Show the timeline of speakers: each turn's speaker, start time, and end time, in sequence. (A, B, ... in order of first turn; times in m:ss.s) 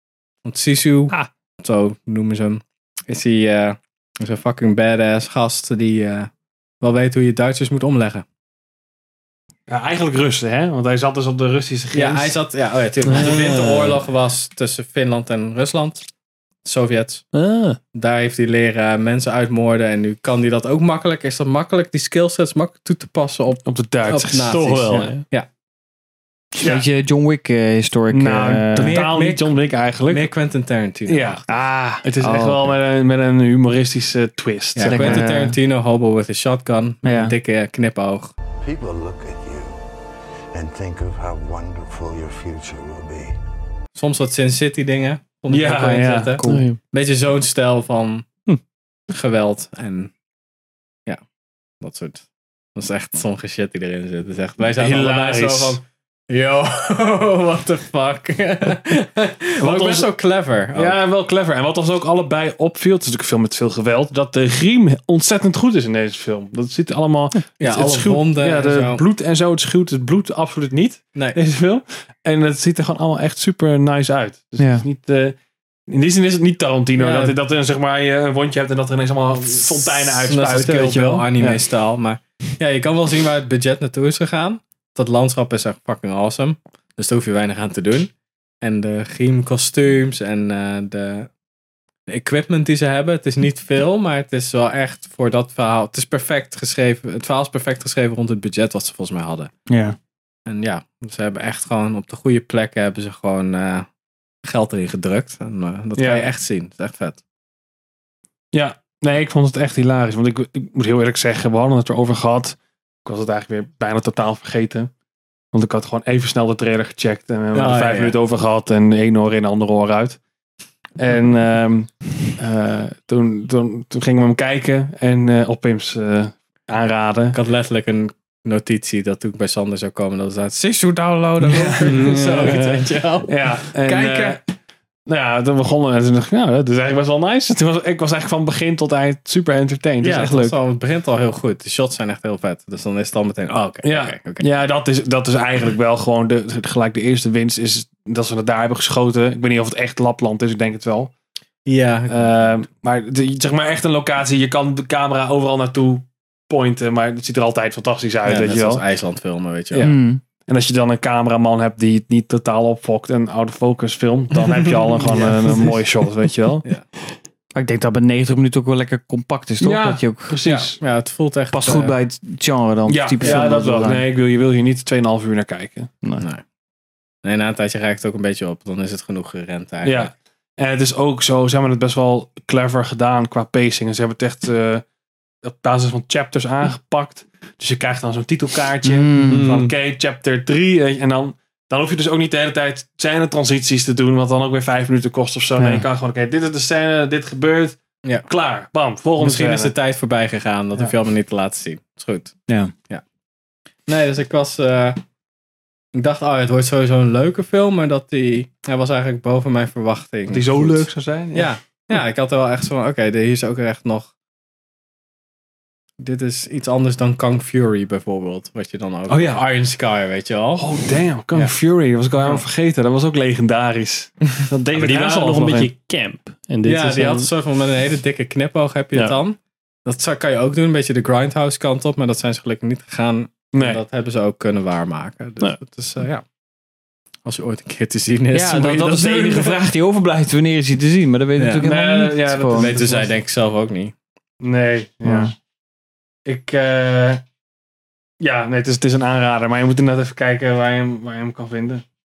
0:00.4-0:06.3 A
0:06.8-0:08.2 A
0:09.7-0:12.4 B
0:11.9-0:16.0 A
0:13.1-0:13.9 B
0:16.6-0:17.3 A
0:17.3-0:17.8 C
0:17.9-0:25.5 A
0:23.7-0:25.1 B
0:24.9-0:25.2 C
0:26.6-0:29.0 D
0:26.6-0:26.9 B
0:28.1-0:30.3 B
0:28.8-0:29.5 A
0:30.1-0:31.6 A
0:31.1-0:35.2 B
0:32.2-0:32.7 D
0:34.8-0:38.3 A
0:34.8-0:35.6 D
0:37.0-0:37.3 D
0:38.6-0:39.8 E
0:40.5-0:43.4 E
0:44.0-0:48.2 A
0:45.5-0:46.4 B
0:46.5-0:46.8 C
0:49.1-0:50.1 A
0:51.8-0:52.2 A
0:52.8-1:01.0 A
0:54.8-0:55.8 B
0:59.6-1:00.1 B
1:00.7-1:15.4 B
1:07.6-1:09.0 A
1:11.2-1:11.4 A
1:14.6-1:14.9 D
1:15.9-1:21.6 B
1:17.0-1:17.4 A
1:19.6-1:31.3 A
1:32.1-1:39.5 A
1:40.5-1:43.9 A
1:44.4-1:47.2 A
1:46.0-1:46.3 B
1:48.5-1:54.9 B
1:55.5-2:00.2 B
1:57.5-1:58.2 A
2:01.0-2:07.4 B
2:07.3-2:14.4 A
2:11.4-2:14.4 B
2:15.1-2:20.6 B
2:20.0-2:24.5 A
2:23.8-2:31.1 B
2:31.7-2:32.5 A
2:32.1-2:38.8 B
2:38.2-2:39.9 A
2:39.8-2:40.2 D
2:40.5-2:46.6 B
2:47.5-2:50.4 D
2:49.6-2:50.8 B
2:50.4-2:52.0 A
2:51.5-2:54.0 D
2:52.9-2:55.9 B
2:53.2-2:53.5 A
2:57.2-3:00.1 A
2:59.8-3:04.8 B
3:05.4-3:19.7 B
3:08.8-3:09.4 D
3:09.2-3:09.7 A
3:15.6-3:15.8 D
3:19.2-3:22.4 A
3:23.9-3:25.0 A
3:25.9-3:34.1 A
3:30.3-3:31.6 B
3:36.0-3:40.7 A
3:39.1-3:39.4 B
3:40.6-3:45.7 B
3:44.7-3:47.3 C
3:46.6-3:56.2 A
3:53.6-3:53.8 B
3:57.3-3:59.7 A
3:58.3-4:02.7 D
4:01.4-4:01.7 A
4:01.6-4:03.1 B
4:02.5-4:03.9 A
4:04.4-4:05.3 B
4:05.0-4:05.3 D
4:06.3-4:07.2 B
4:08.2-4:11.8 B